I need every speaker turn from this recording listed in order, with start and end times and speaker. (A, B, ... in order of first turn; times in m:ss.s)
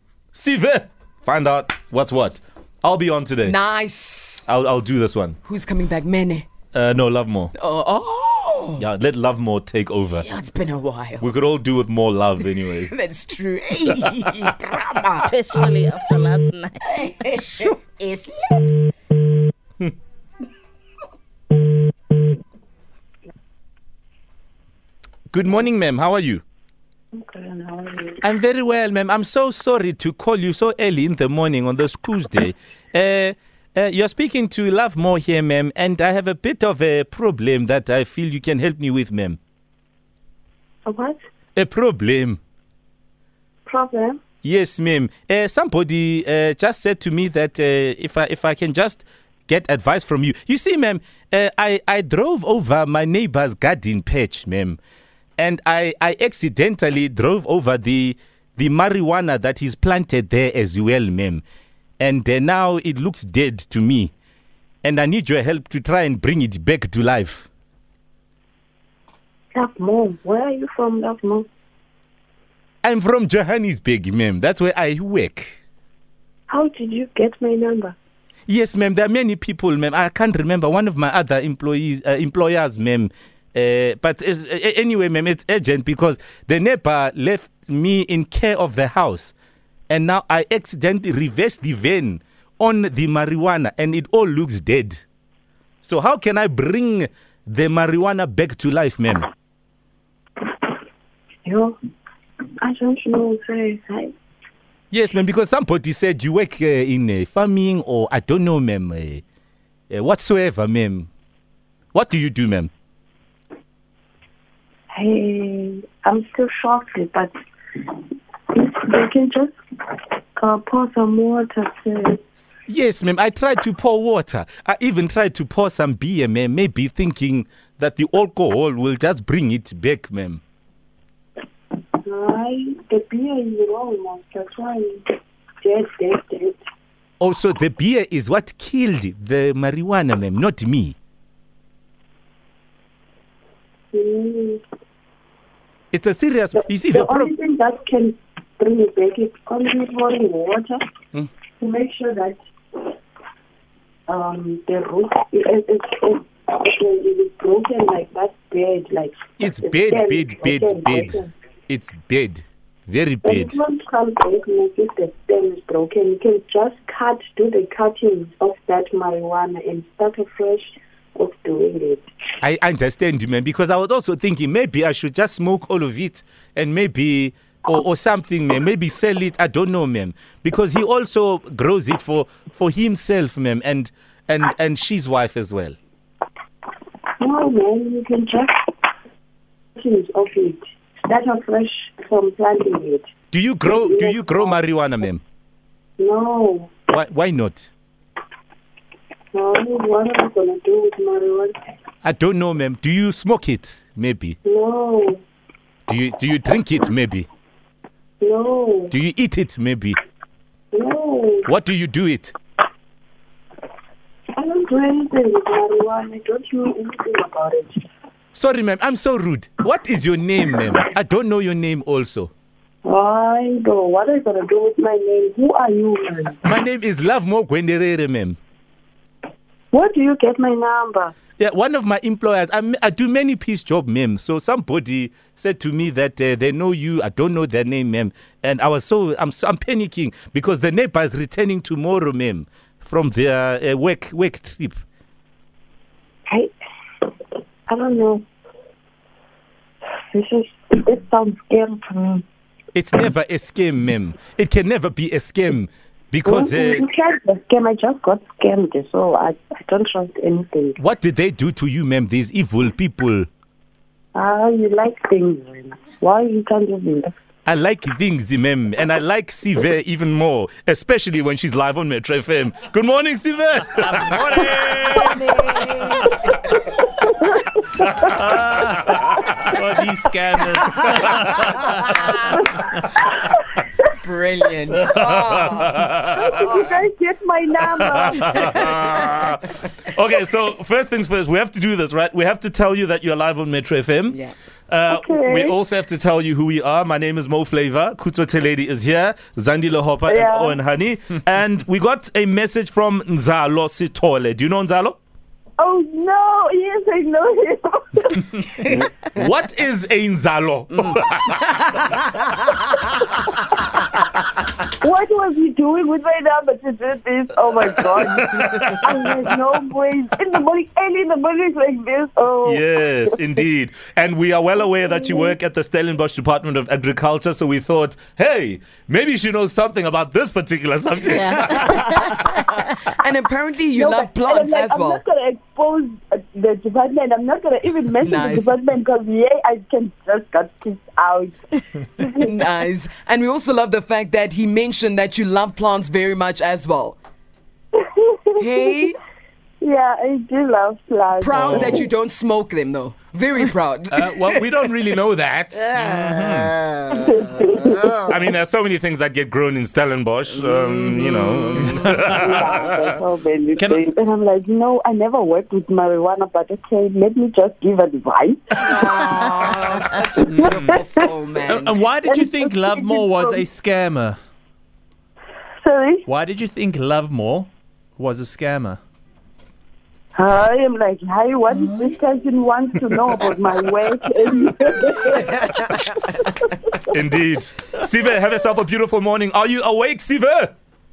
0:00.3-0:03.6 A
0:03.4-0:04.5 B
0:04.4-0:05.4 A
0:05.4-0:06.4 B
0:06.7-0:07.5 A
0:07.6-0:08.8 B
0:08.8-0:10.2 A
0:10.2-0:11.2 B
0:11.2-0:12.9 A
0:12.6-0:15.3 B
0:15.3-0:17.0 C
0:17.0-0:18.2 B
0:25.3-0:26.4 A
0:27.1-0:28.2 D
0:28.2-0:39.4 A
0:40.8-0:41.2 D
0:41.6-0:42.4 A
0:43.6-0:44.2 D
0:44.4-0:54.8 A
0:55.4-1:01.4 A
1:02.0-1:04.1 A
1:04.8-1:07.5 A
1:09.5-1:11.5 D
1:12.8-1:15.6 A
1:16.5-1:18.0 D
1:18.5-1:29.3 A
1:29.9-1:35.0 A
1:35.8-1:39.2 A
1:41.4-1:41.7 D
1:42.6-1:44.1 D
1:44.9-1:49.2 A
1:49.9-1:51.1 A
1:51.9-1:52.7 A
1:54.9-1:57.3 D
1:58.5-1:59.6 D
2:00.4-2:02.2 D
2:02.7-2:10.4 A
2:12.0-2:15.1 D
2:15.6-2:16.6 D
2:17.2-2:21.0 A
2:23.9-2:24.6 D
2:25.9-2:27.3 A
2:26.6-2:30.8 D
2:31.6-2:32.4 D
2:34.1-2:41.3 D
2:39.4-2:43.6 A
2:43.2-2:52.0 D
2:52.4-3:05.8 A
3:07.2-3:08.6 D
3:09.8-3:13.1 D
3:13.3-3:15.2 A
3:13.6-3:14.6 D
3:16.0-3:16.8 D
3:16.9-3:17.7 A
3:19.3-3:21.6 D
3:22.0-3:24.4 A
3:24.4-3:25.2 D
3:25.9-3:27.3 A
3:28.2-3:28.9 D
3:28.9-3:30.0 A
3:30.7-3:31.5 D
3:31.5-3:32.3 A
3:34.4-3:37.8 D
3:38.3-3:42.3 A
3:42.8-3:46.4 D
3:46.4-3:48.4 A
3:49.7-3:51.1 D
3:51.4-4:04.8 A
4:07.7-4:08.2 D
4:10.1-4:12.2 D
4:12.7-4:16.8 A
4:16.2-4:20.8 D
4:20.8-4:23.3 A
4:24.1-4:27.1 D
4:27.4-4:35.2 A
4:34.9-4:36.1 B
4:36.7-4:38.1 D
4:37.8-4:42.0 A
4:39.7-4:41.1 E
4:42.9-4:43.4 D
4:44.0-4:45.8 B
4:44.9-4:46.4 A
4:46.1-4:49.0 D
4:47.8-5:05.0 A
4:54.9-4:55.6 D
5:00.1-5:00.6 D
5:05.6-5:08.6 D
5:08.6-5:11.6 A
5:14.7-5:23.1 D
5:17.8-5:19.2 A
5:22.4-5:31.8 A
5:24.9-5:25.3 D
5:31.1-5:32.3 C
5:31.5-5:35.0 B
5:33.7-5:41.4 D
5:38.0-5:38.6 B
5:41.9-5:42.3 D
5:42.2-5:47.0 B
5:47.8-5:48.4 D
5:48.4-5:49.0 B
5:49.6-5:51.9 D
5:51.2-5:54.5 B
5:53.9-5:55.7 A
5:55.7-5:56.6 E
5:56.9-5:58.1 D
5:58.0-6:02.8 A
6:00.6-6:01.0 B
6:01.6-6:02.0 E
6:01.9-6:09.1 D
6:03.6-6:03.8 E
6:08.6-6:11.8 B
6:10.2-6:10.8 E
6:10.4-6:11.0 D
6:11.4-6:14.2 E
6:12.0-6:13.4 D
6:15.6-6:16.0 D
6:16.0-6:18.8 E
6:20.1-6:26.5 D
6:26.9-6:30.5 A